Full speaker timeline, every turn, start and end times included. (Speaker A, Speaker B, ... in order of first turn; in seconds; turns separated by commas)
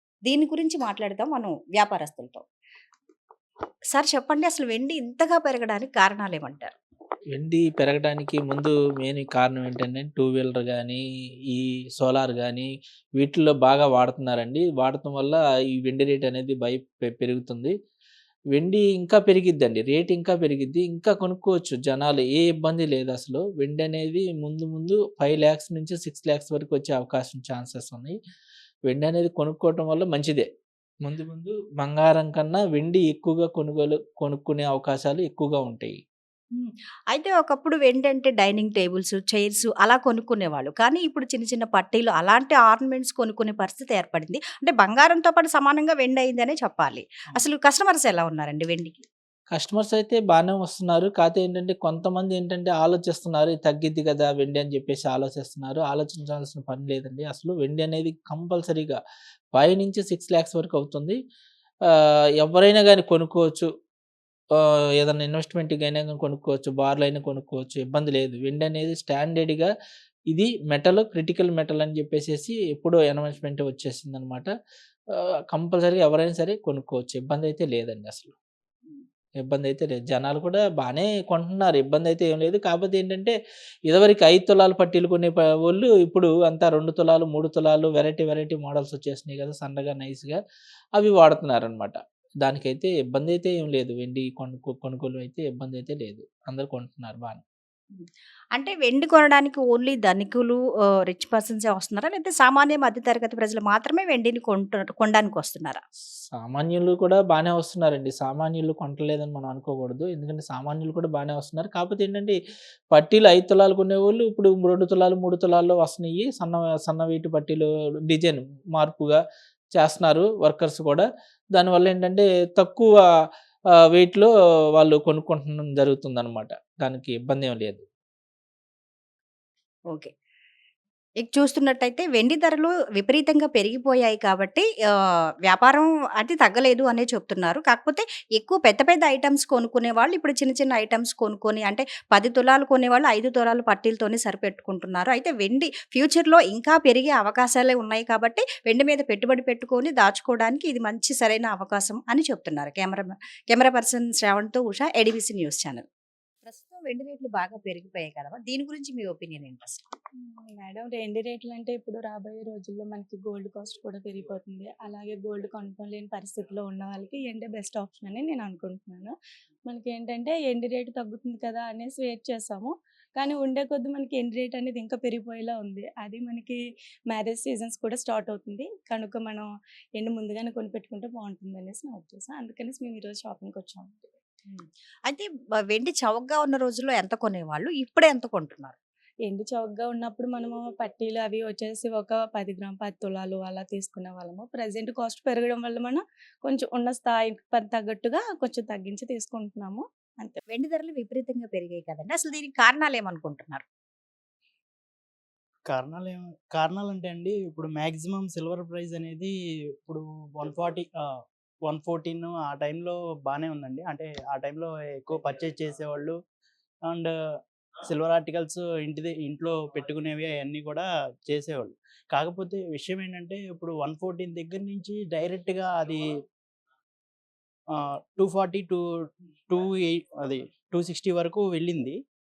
Speaker A: 0.2-2.4, Speaker A: 3.9-6.7, Speaker B: 7.3-11.0, Speaker B: 11.6-12.7, Speaker B: 13.2-17.7, Speaker B: 18.5-28.1, Speaker B: 28.9-30.5, Speaker B: 31.0-35.9, Speaker A: 36.5-49.0, Speaker B: 49.5-59.0, Speaker B: 59.5-61.1, Speaker B: 62.4-63.7, Speaker B: 65.0-69.7, Speaker B: 70.3-74.5, Speaker B: 75.5-78.3, Speaker B: 79.4-83.3, Speaker B: 83.9-90.3, Speaker B: 91.0-97.3, Speaker A: 98.0-105.8, Speaker B: 106.4-112.3, Speaker B: 112.9-119.2, Speaker B: 119.8-121.0, Speaker B: 121.5-122.9, Speaker B: 123.9-127.8, Speaker A: 131.2-134.7, Speaker A: 135.4-155.8, Speaker A: 156.4-159.9, Speaker C: 160.2-169.1, Speaker C: 169.7-184.1, Speaker A: 184.5-188.8, Speaker C: 189.2-200.4, Speaker A: 200.5-203.6, Speaker D: 205.7-209.3, Speaker D: 209.8-211.0, Speaker D: 211.6-216.2, Speaker D: 216.8-217.1, Speaker D: 217.8-226.0, Speaker D: 227.7-228.8, Speaker D: 229.5-232.0